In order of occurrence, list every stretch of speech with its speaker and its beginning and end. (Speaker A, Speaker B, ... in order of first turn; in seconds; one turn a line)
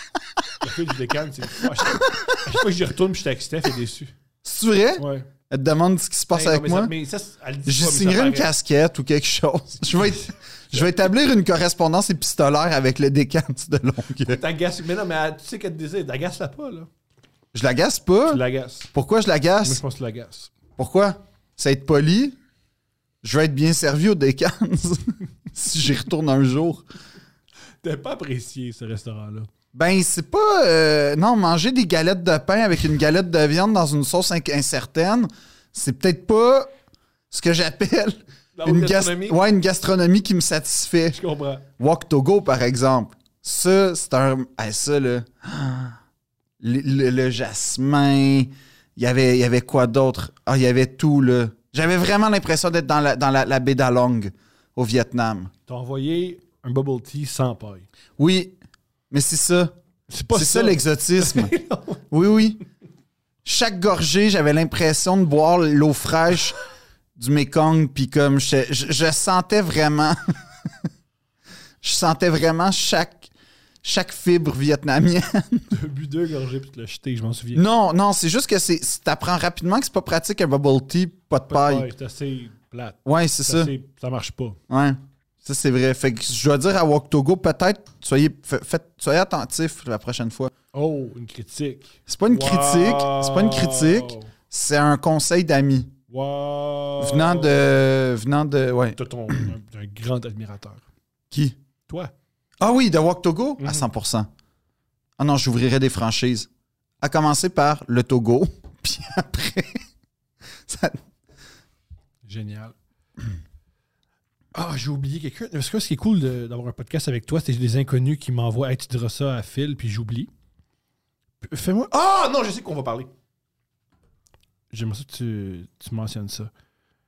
Speaker A: 0.6-4.1
Speaker B: 4.4-6.9
Speaker A: 5.0-5.3
Speaker A: 6.3-8.5
Speaker B: 7.7-14.4
Speaker A: 14.3-16.9
Speaker B: 17.5-18.4
Speaker A: 18.2-18.9
Speaker B: 18.9-19.8
Speaker A: 19.6-20.5
Speaker B: 20.8-22.4
Speaker B: 23.2-26.8
Speaker A: 27.8-29.5
Speaker B: 29.7-36.7
Speaker B: 37.3-41.2
Speaker A: 38.5-39.4
Speaker A: 41.1-41.6
Speaker B: 41.8-46.0
Speaker B: 46.6-55.5
Speaker A: 55.7-57.9
Speaker B: 58.2-58.5
Speaker B: 59.1-59.7
Speaker A: 60.1-62.0
Speaker B: 60.3-61.5
Speaker B: 62.1-62.6
Speaker B: 63.5-66.6
Speaker B: 67.2-70.2
Speaker B: 71.8-73.3
Speaker B: 73.8-75.7
Speaker A: 75.7-77.7
Speaker B: 77.5-81.9
Speaker A: 81.5-84.6
Speaker B: 83.0-83.7
Speaker B: 84.7-90.5
Speaker A: 90.7-94.3
Speaker B: 92.1-95.9
Speaker A: 96.1-97.7
Speaker B: 97.0-99.5
Speaker A: 99.0-100.8
Speaker B: 101.3-101.6
Speaker A: 101.9-102.1
Speaker B: 102.6-104.3
Speaker A: 103.6-103.9
Speaker B: 105.2-106.5
Speaker B: 107.0-109.8
Speaker B: 110.7-111.0
Speaker A: 112.2-112.8
Speaker A: 114.5-120.3
Speaker A: 121.4-123.1
Speaker A: 124.7-126.5